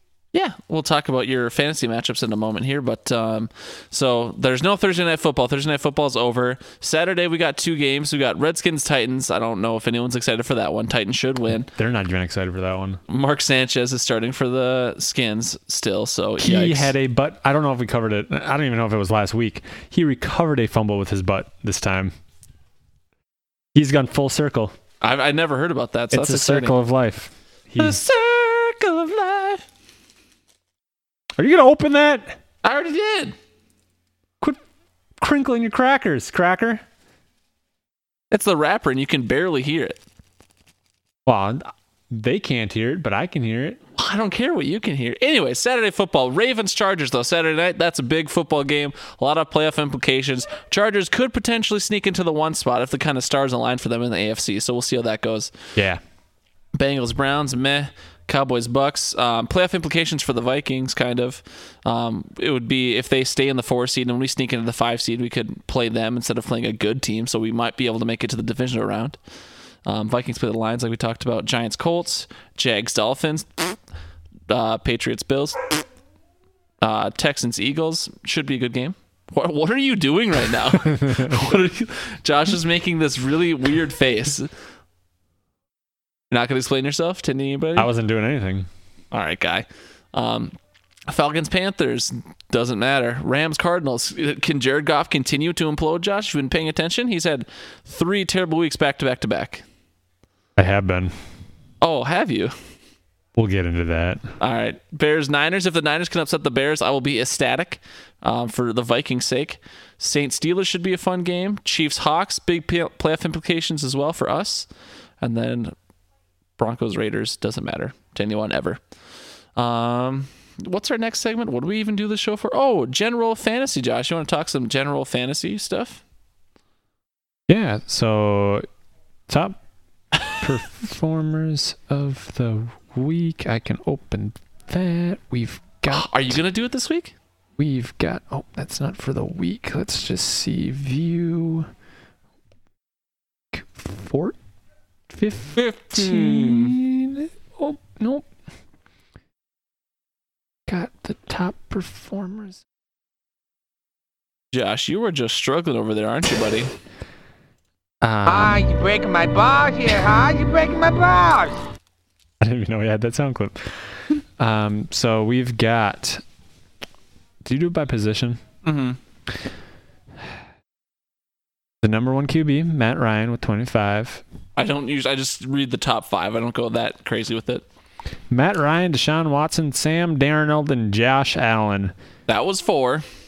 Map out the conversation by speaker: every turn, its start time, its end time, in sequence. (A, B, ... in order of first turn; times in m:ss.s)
0:00.3-0:11.7 A
0:11.7-0:13.0 B
0:13.1-0:16.9 A
0:16.4-0:22.1 B
0:23.7-0:24.8 B
0:25.0-0:26.8 A
0:26.1-0:28.0 B
0:27.8-0:29.6 A
0:31.4-0:32.4 B
0:32.6-0:33.4 A
0:35.2-0:36.8 B
0:38.3-0:40.0 A
0:41.3-0:43.8 B
0:44.0-0:55.8 A
0:55.8-0:56.0 B
0:56.7-1:09.2 A
1:09.8-1:13.8 A
1:14.5-1:15.9 A
1:16.8-1:24.5 A
1:20.8-1:21.5 B
1:26.3-1:27.9 A
1:27.8-1:28.7 B
1:29.1-1:30.6 A
1:31.1-1:39.6 A
1:40.6-1:41.2 B
1:41.8-1:42.6 A
1:43.4-1:44.3 B
1:44.4-1:54.7 A
1:55.2-1:55.8 A
1:56.6-1:58.9 A
1:59.6-2:06.0 A
2:07.5-2:08.7 B
2:09.3-2:09.6 B
2:10.3-2:16.4 B
2:15.9-2:17.2 A
2:17.6-2:21.7 B
2:23.5-2:24.4 B
2:25.1-2:28.3 B
2:25.6-2:26.8 A
2:30.7-2:32.6 B
2:34.5-2:36.7 A
2:38.0-2:38.7 B
2:38.2-2:41.6 C
2:42.4-2:46.2 B
2:47.4-2:48.4 B
2:48.6-2:49.0 A
2:51.8-2:54.2 B
2:54.6-2:57.6 A
2:58.3-3:02.0 B
3:02.3-3:03.1 A